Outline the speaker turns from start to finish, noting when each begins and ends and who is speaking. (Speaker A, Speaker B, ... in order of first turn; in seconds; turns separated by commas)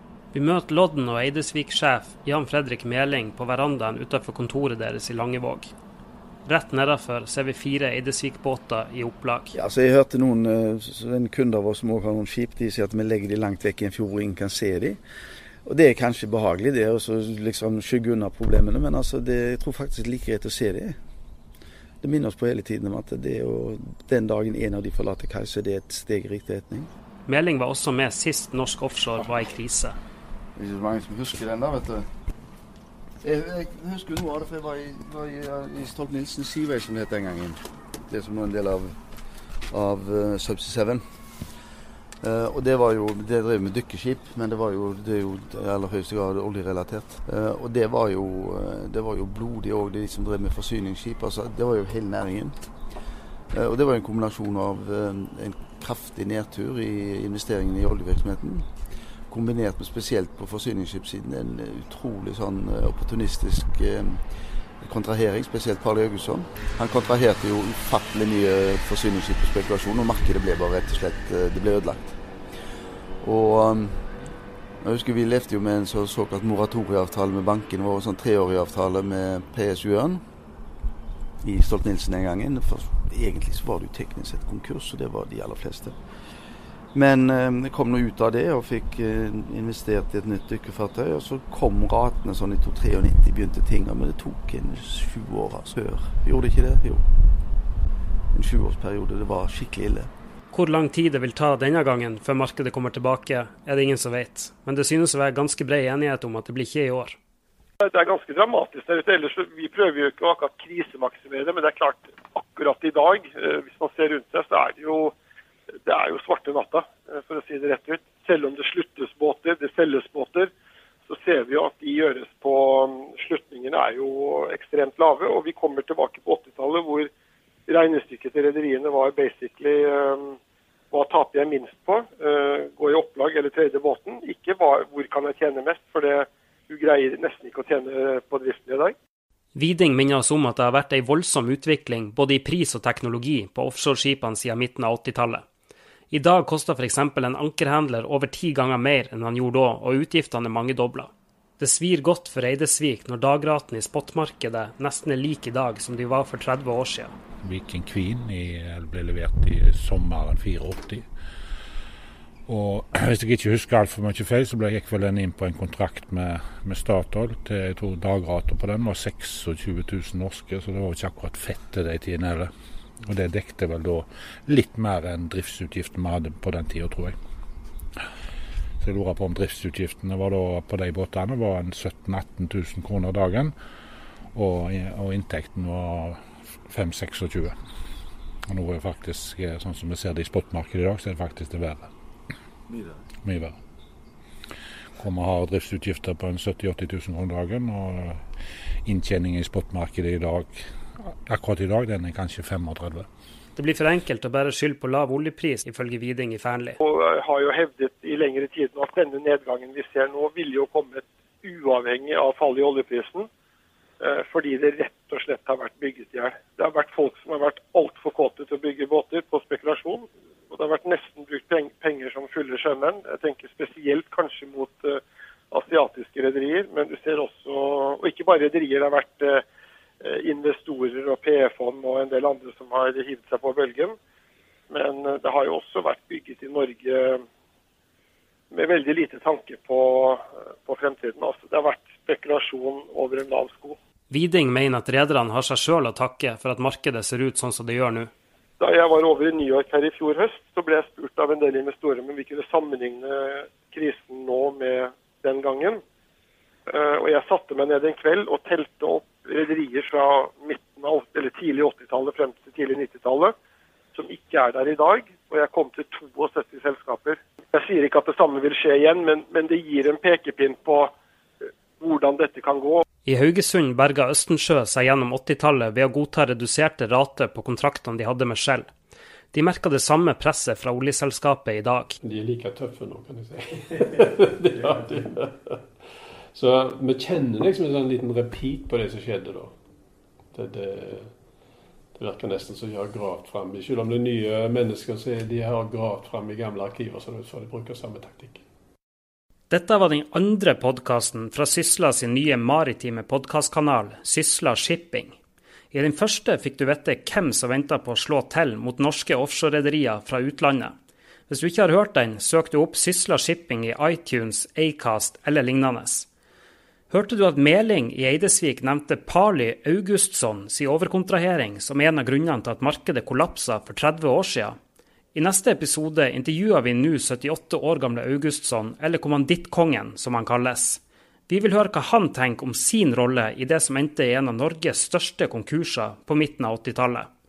Speaker A: 0.3-5.7, Speaker A: 6.5-9.5, Speaker B: 9.5-15.0, Speaker B: 15.7-21.0, Speaker B: 22.0-26.9, Speaker A: 27.3-30.0, Speaker B: 30.6-32.1, Speaker B: 33.2-39.0, Speaker B: 39.7-41.0, Speaker B: 42.2-52.5, Speaker B: 53.5-58.7, Speaker B: 59.3-64.2, Speaker B: 64.8-72.2, Speaker B: 73.2-74.0, Speaker B: 74.8-80.2, Speaker B: 81.4-86.0, Speaker B: 86.9-97.1, Speaker B: 98.3-100.1, Speaker A: 100.5-107.2, Speaker C: 107.8-115.1, Speaker C: 115.9-120.5, Speaker C: 121.1-127.1, Speaker C: 127.7-130.4, Speaker C: 130.9-138.9, Speaker A: 139.5-145.4, Speaker A: 146.1-157.1, Speaker D: 157.4-161.1, Speaker D: 162.5-172.5, Speaker D: 173.1-177.2, Speaker D: 178.8-183.5, Speaker D: 184.3-187.5, Speaker D: 188.5-191.9, Speaker D: 193.2-193.6, Speaker D: 195.0-198.2, Speaker D: 198.9-203.1, Speaker A: 203.6-206.8, Speaker C: 206.8-213.3, Speaker C: 214.0-229.4, Speaker C: 230.0-233.9, Speaker C: 234.7-237.2, Speaker C: 238.5-243.8, Speaker A: 244.1-248.1, Speaker C: 248.6-255.8, Speaker C: 256.7-263.3, Speaker C: 263.9-270.9, Speaker C: 271.8-272.8, Speaker A: 273.1-278.7, Speaker A: 279.3-282.0, Speaker E: 282.0-285.6, Speaker E: 286.3-289.5, Speaker E: 290.3-291.1, Speaker E: 291.9-298.4, Speaker A: 299.5-305.2, Speaker A: 305.7-310.7, Speaker A: 311.3-316.1, Speaker A: 316.9-324.6, Speaker A: 325.1-337.1